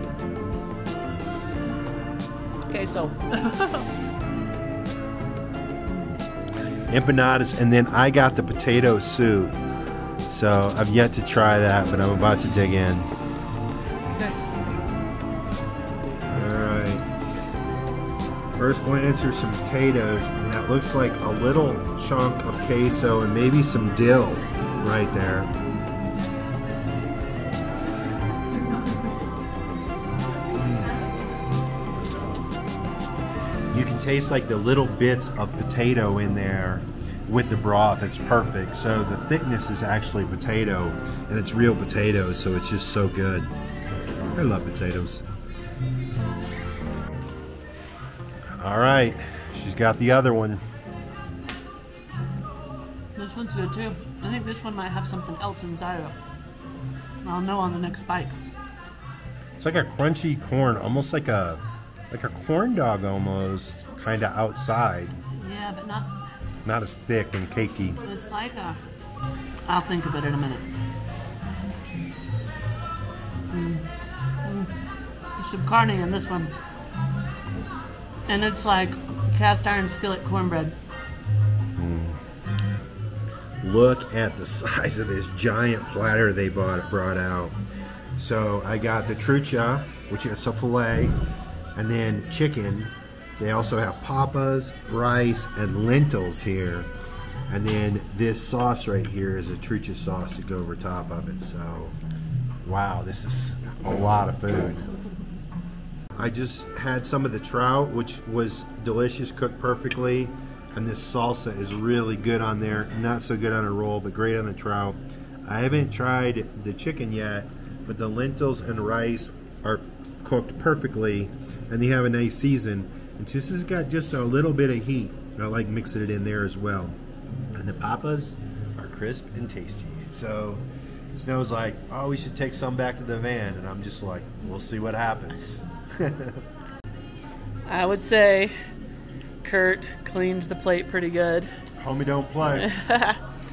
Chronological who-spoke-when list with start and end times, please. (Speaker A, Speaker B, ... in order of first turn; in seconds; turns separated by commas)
Speaker A: 2.7-3.9, Speaker B: 6.9-9.6, Speaker B: 10.3-13.1, Speaker A: 14.1-14.4, Speaker B: 16.3-17.1, Speaker B: 18.6-25.5, Speaker B: 30.5-31.0, Speaker B: 33.7-43.5, Speaker B: 44.3-45.2, Speaker B: 48.5-50.6, Speaker A: 53.2-56.2, Speaker A: 57.2-58.4, Speaker B: 59.6-65.2, Speaker A: 65.4-66.2, Speaker B: 66.7-68.0, Speaker A: 68.0-68.8, Speaker A: 69.7-70.7, Speaker A: 73.5-73.9, Speaker A: 74.4-74.7, Speaker A: 75.4-76.5, Speaker A: 78.3-80.8, Speaker B: 81.8-82.2, Speaker B: 83.6-87.6, Speaker B: 88.2-91.2, Speaker B: 91.8-96.9, Speaker B: 97.5-102.0, Speaker B: 102.6-104.8, Speaker B: 106.2-127.0, Speaker B: 127.5-136.4, Speaker A: 137.7-138.6, Speaker A: 139.4-141.5, Speaker B: 141.8-142.7, Speaker A: 142.5-143.2